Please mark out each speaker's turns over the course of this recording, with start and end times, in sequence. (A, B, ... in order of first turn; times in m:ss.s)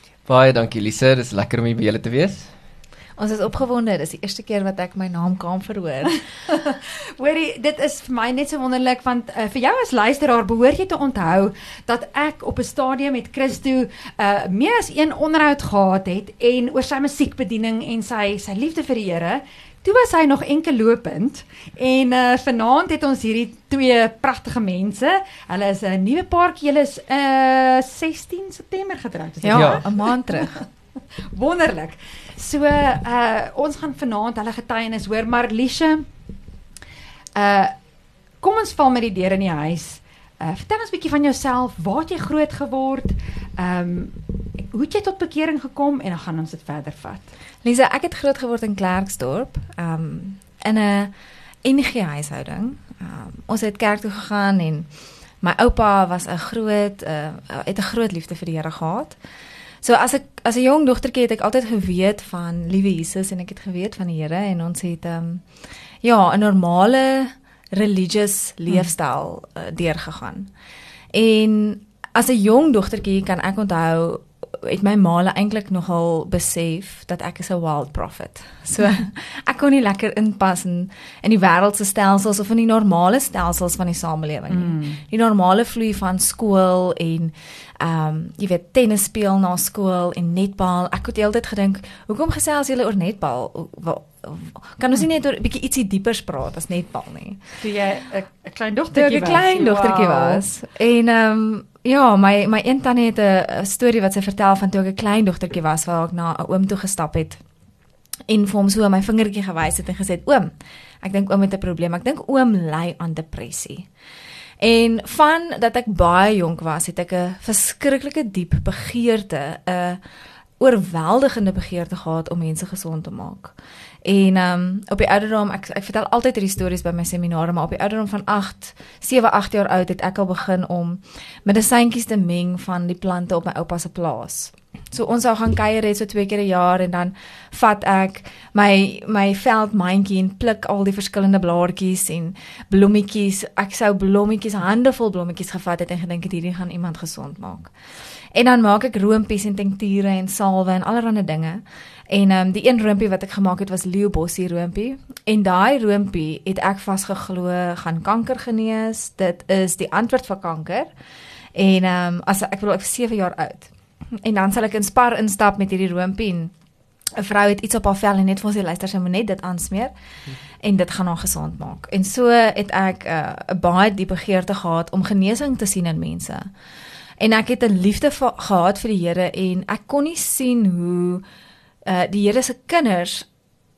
0:00.3-0:02.5 A
0:03.2-0:06.3 B
0:06.5-0:30.7 C
0:29.4-0:30.6 B
0:29.5-0:29.8 A
0:31.3-0:36.1 C
0:37.4-0:37.7 C
0:38.4-0:47.3 C
0:47.6-0:51.1 B
0:51.6-0:54.9 B
0:55.4-0:59.2 B
0:59.8-1:05.4 B
1:06.0-1:10.5 B
1:11.1-1:37.6 B
1:24.5-1:25.0 C
1:37.6-1:40.4 C
1:38.9-1:47.4 B
1:48.3-1:50.5 B
1:51.0-1:53.9 B
1:54.6-2:00.0 B
2:00.6-2:03.5 B
2:04.0-2:27.7 B
2:28.3-2:40.9 B
2:41.6-2:46.5 B
2:47.2-2:49.9 B
2:50.6-2:56.5 B
2:57.2-3:01.2 B
3:01.9-3:03.3 B